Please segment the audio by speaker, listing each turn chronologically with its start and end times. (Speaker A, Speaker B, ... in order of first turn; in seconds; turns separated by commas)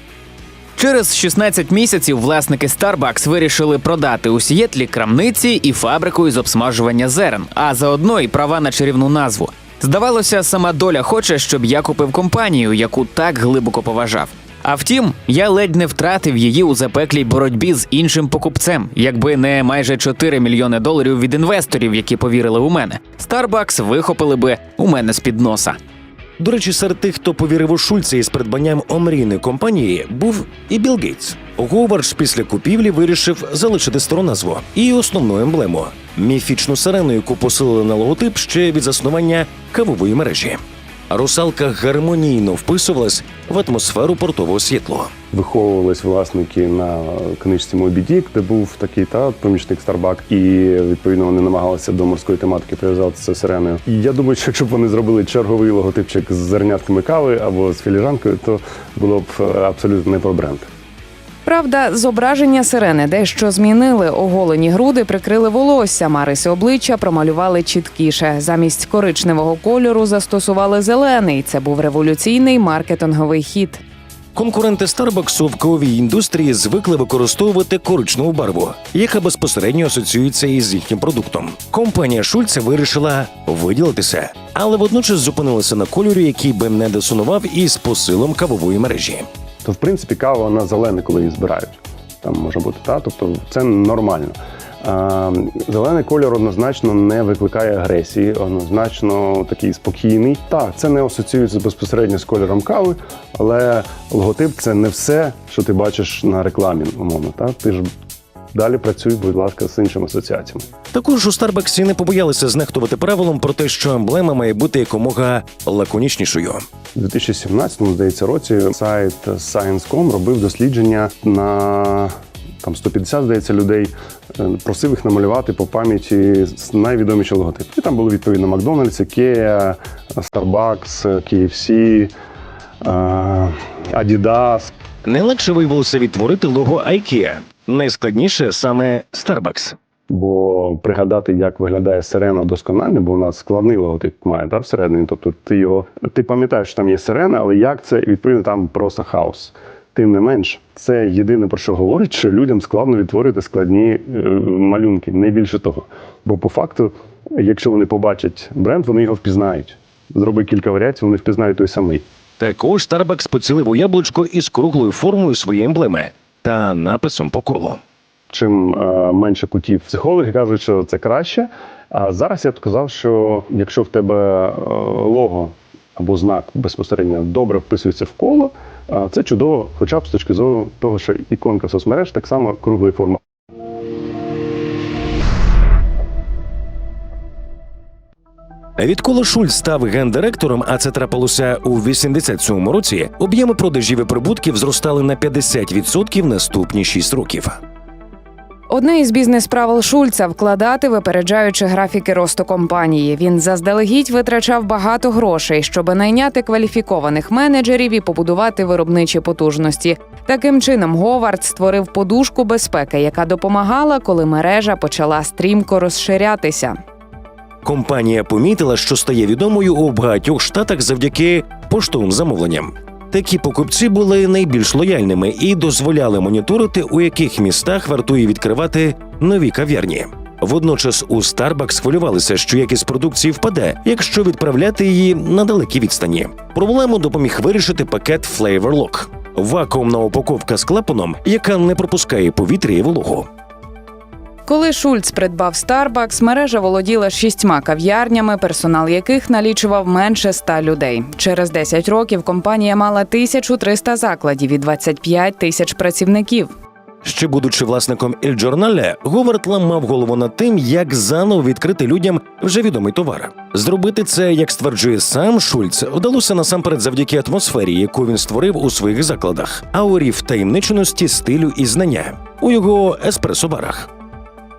Speaker A: 0.8-25.8, Speaker B: 26.4-45.1, Speaker C: 45.3-60.7, Speaker D: 61.5-73.8, Speaker B: 74.3-89.3, Speaker C: 89.6-107.9, Speaker C: 108.5-110.7, Speaker B: 110.9-116.7, Speaker C: 117.0-132.1, Speaker C: 132.8-134.7, Speaker B: 135.1-139.8, Speaker C: 140.1-162.0, Speaker B: 162.4-167.8, Speaker C: 168.3-183.2, Speaker B: 188.8-197.6, Speaker D: 198.7-216.8, Speaker B: 217.6-243.3, Speaker D: 244.5-256.5, Speaker B: 257.0-273.9